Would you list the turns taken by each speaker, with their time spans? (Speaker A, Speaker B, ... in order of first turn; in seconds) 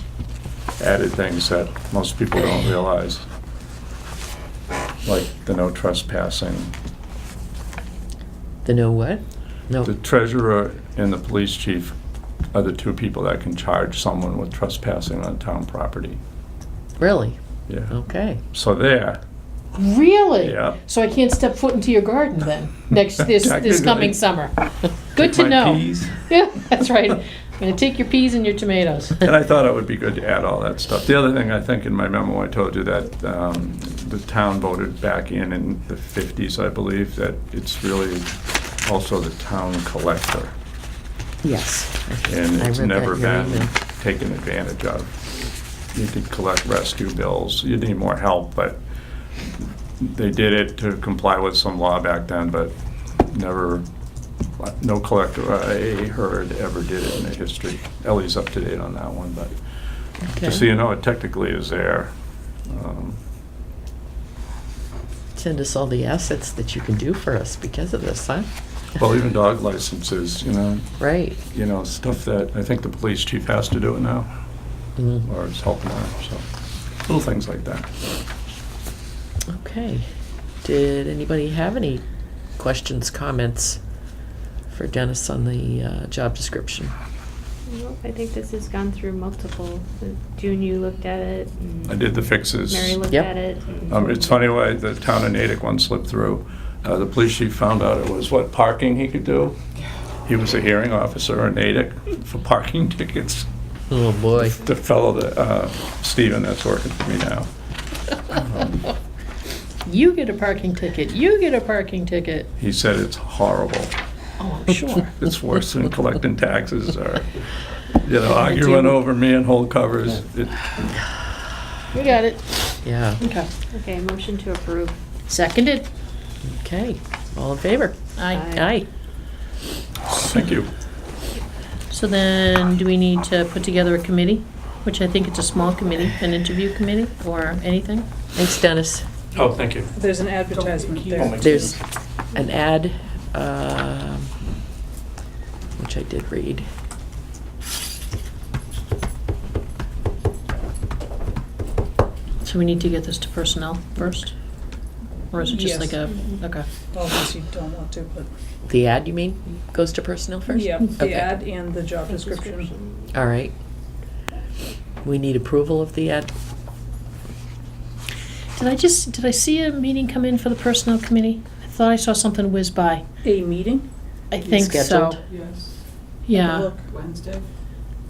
Speaker A: 0.8-3.2, 5.0-6.7, 9.8-11.9, 12.5-16.2, 17.7-17.9, 18.5-19.2, 20.4-20.8, 23.3-24.2, 25.2-26.2, 29.2-40.5, 42.3-45.2, 45.9-48.8, 50.0-53.9, 54.6-59.6, 60.3-62.1, 62.7-63.2, 69.0-74.3, 75.2-76.4, 77.0-77.9, 91.9-93.0, 93.9-99.5, 100.2-103.5, 104.4-107.5, 108.3-108.8, 112.6-113.9, 115.1-117.4, 117.9-120.9, 130.1-130.7, 139.3-139.9
Speaker B: 8.6-9.9, 17.0-17.4, 17.9-18.4, 41.4-43.7, 60.3-60.6, 65.3-68.5, 71.0-71.4, 75.0-75.2, 79.5-80.1, 80.6-82.0, 82.6-83.8, 84.7-86.9, 103.9-104.6, 118.5-118.9, 122.8-123.2, 126.4-128.9, 138.3-139.1, 141.4-141.8, 142.3-144.3, 145.8-146.7, 158.7-161.4, 163.1-163.5, 165.0-166.3, 174.4-175.2
Speaker C: 19.8-29.2, 109.9-112.5, 114.4-115.1, 121.9-123.5, 125.3-125.9, 128.2-128.5, 131.9-138.1, 152.4-154.3, 155.3-156.7, 168.6-173.1, 174.3-175.2, 176.3-176.7
Speaker D: 87.7-94.4, 123.7-125.0, 128.3-128.7, 162.1-163.1
Speaker E: 139.9-141.7, 155.4-156.1, 156.9-158.3, 160.5-162.7, 173.2-173.9, 176.3-176.9
Speaker F: 140.5-141.7, 175.3-175.8, 176.8-177.5